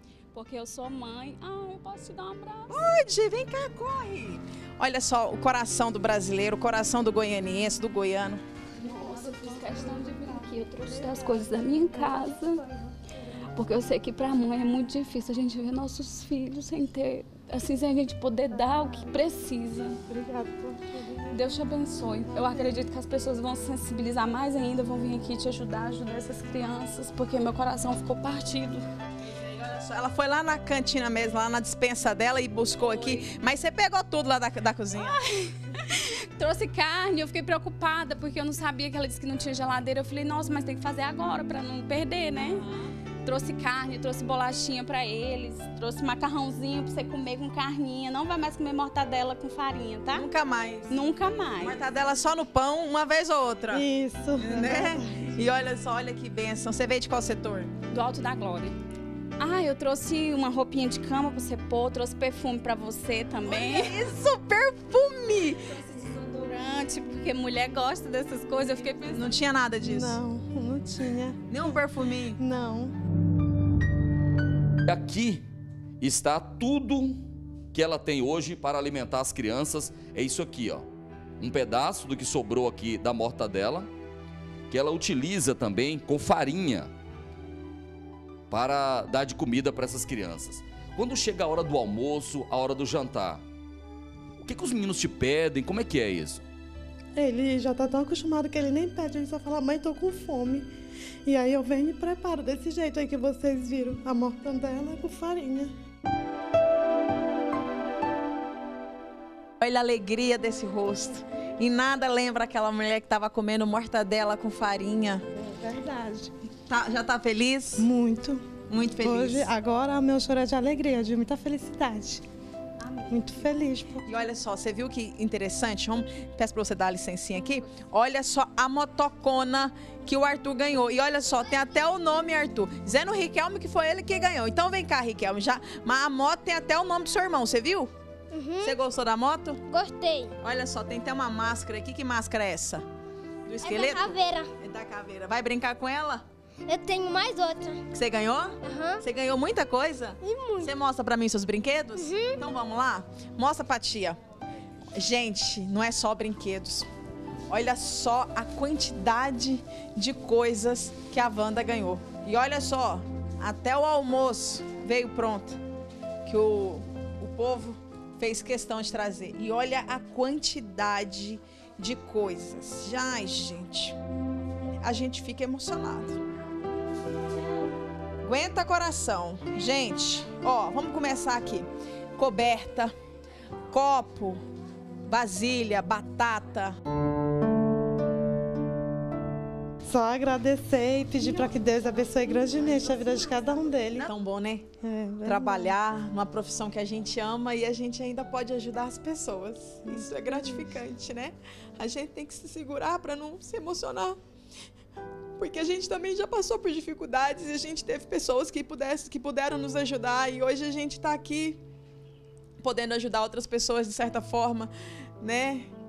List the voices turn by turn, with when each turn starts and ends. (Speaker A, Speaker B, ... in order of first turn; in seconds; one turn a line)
Speaker A: 0.3-2.7
Speaker B: 2.7-8.4
Speaker A: 8.8-12.6
Speaker C: 9.3-11.3
Speaker C: 12.0-12.8
Speaker A: 13.5-20.0
Speaker C: 18.6-18.9
Speaker C: 20.1-21.4
Speaker A: 21.3-28.8
Speaker C: 22.3-22.7
Speaker B: 29.2-35.2
Speaker A: 32.8-33.2
Speaker A: 35.0-42.6
Speaker A: 43.2-50.3
Speaker B: 50.1-51.0
Speaker A: 50.9-51.8
Speaker B: 51.6-53.9
Speaker C: 53.7-55.3
Speaker B: 54.4-57.7
Speaker A: 57.9-58.8
Speaker A: 59.4-64.0
Speaker B: 63.4-65.6
Speaker A: 65.6-69.4
Speaker B: 69.1-70.2
Speaker C: 69.9-71.4
Speaker B: 71.5-72.4
Speaker C: 72.4-72.9
Speaker D: 74.9-75.4
Speaker D: 76.0-77.2
Speaker D: 77.7-80.9
Speaker D: 81.4-83.9
Speaker D: 84.7-86.9
Speaker D: 88.5-93.4
Speaker D: 94.4-96.4
Speaker C: 97.2-100.7
Speaker C: 101.2-105.7
Speaker B: 109.6-115.2
Speaker C: 115.3-116.3
Speaker B: 116.7-117.9
Speaker C: 117.8-122.2
Speaker B: 118.7-119.5
Speaker A: 122.8-123.5
Speaker C: 123.1-124.1
Speaker B: 124.1-137.9
Speaker E: 138.3-138.8
Speaker B: 138.6-139.6
Speaker E: 139.7-140.3
Speaker B: 140.4-142.8
Speaker B: 143.5-146.2
Speaker E: 143.6-144.5
Speaker E: 146.7-147.8
Speaker B: 147.9-154.2
Speaker E: 148.6-149.0
Speaker E: 150.2-150.7
Speaker E: 152.0-152.4
Speaker B: 154.9-156.9
Speaker B: 157.5-165.6
Speaker B: 166.2-174.0
Speaker B: 174.8-176.2
Speaker B: 178.2-182.9
Speaker B: 183.7-184.4
Speaker B: 185.1-186.8
Speaker C: 189.9-194.1
Speaker B: 193.9-194.7
Speaker C: 194.8-195.8
Speaker B: 195.2-204.2
Speaker C: 199.9-200.7
Speaker B: 205.4-211.6
Speaker B: 212.6-215.7